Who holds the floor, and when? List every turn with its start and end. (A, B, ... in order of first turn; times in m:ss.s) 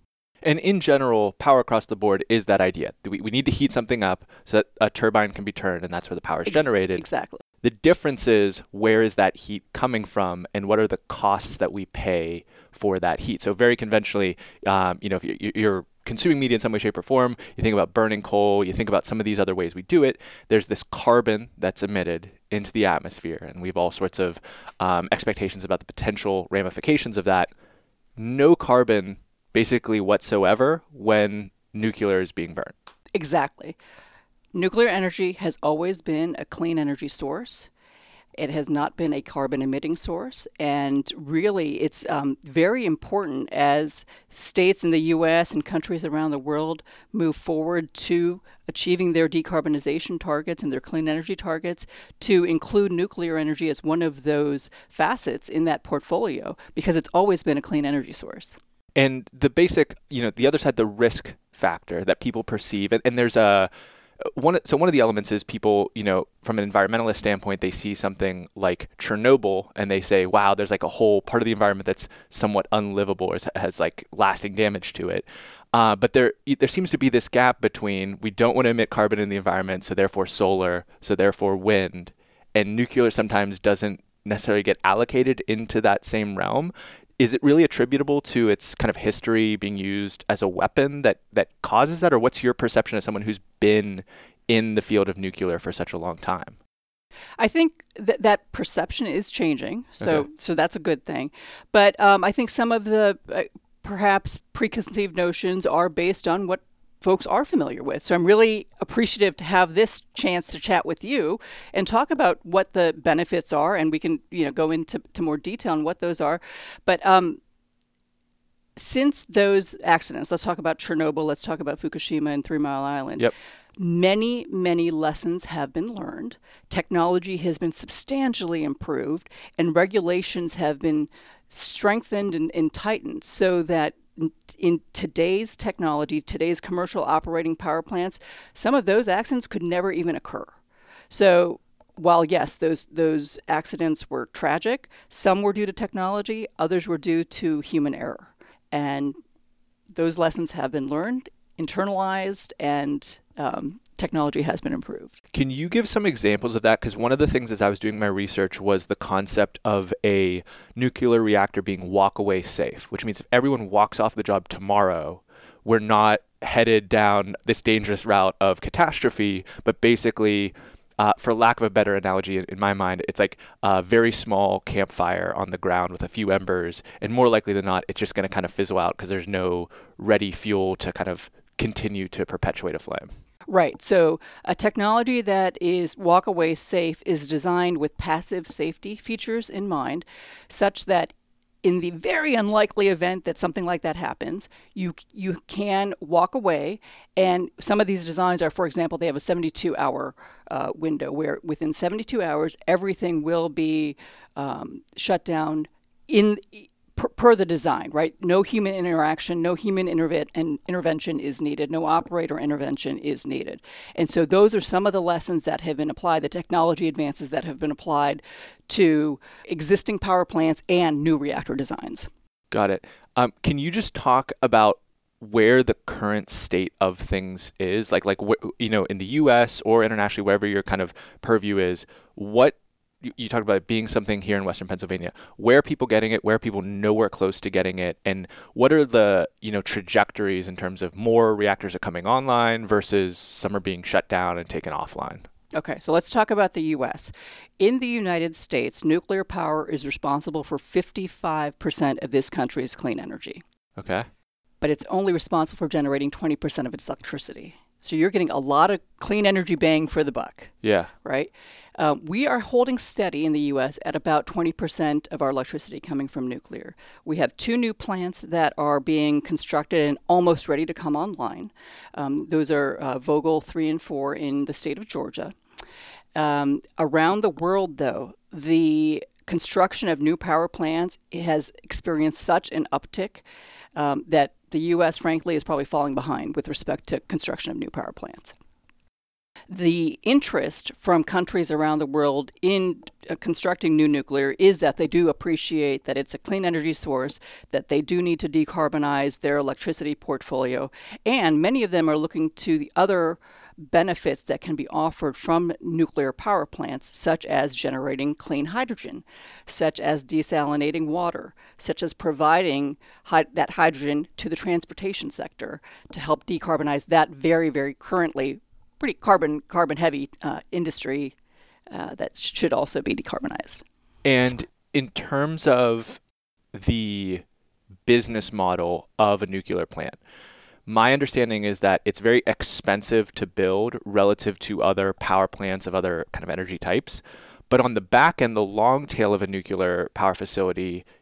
0:00.4-0:07.0 A
0:06.4-0:07.4 B
0:07.6-0:27.5 A
0:28.2-0:32.7 A
0:33.1-0:33.8 B
0:34.5-0:37.7 B
0:38.4-0:58.6 B
0:59.0-1:36.6 A
1:37.4-1:57.4 B
1:58.8-2:20.5 B
2:21.1-2:29.2 B
2:29.9-2:35.1 B
2:35.3-3:03.1 A
3:03.5-3:42.1 B
3:42.5-4:05.3 A
4:05.5-4:13.4 B
4:13.8-4:14.1 A
4:14.6-4:35.3 B
4:20.6-4:20.9 A
4:36.2-4:43.2 B
4:43.8-4:48.3 B
4:49.5-5:21.2 B
5:21.7-5:23.6 B
5:24.0-5:26.0 A
5:26.5-5:27.2 A
5:27.8-5:30.0 A
5:30.6-5:40.8 A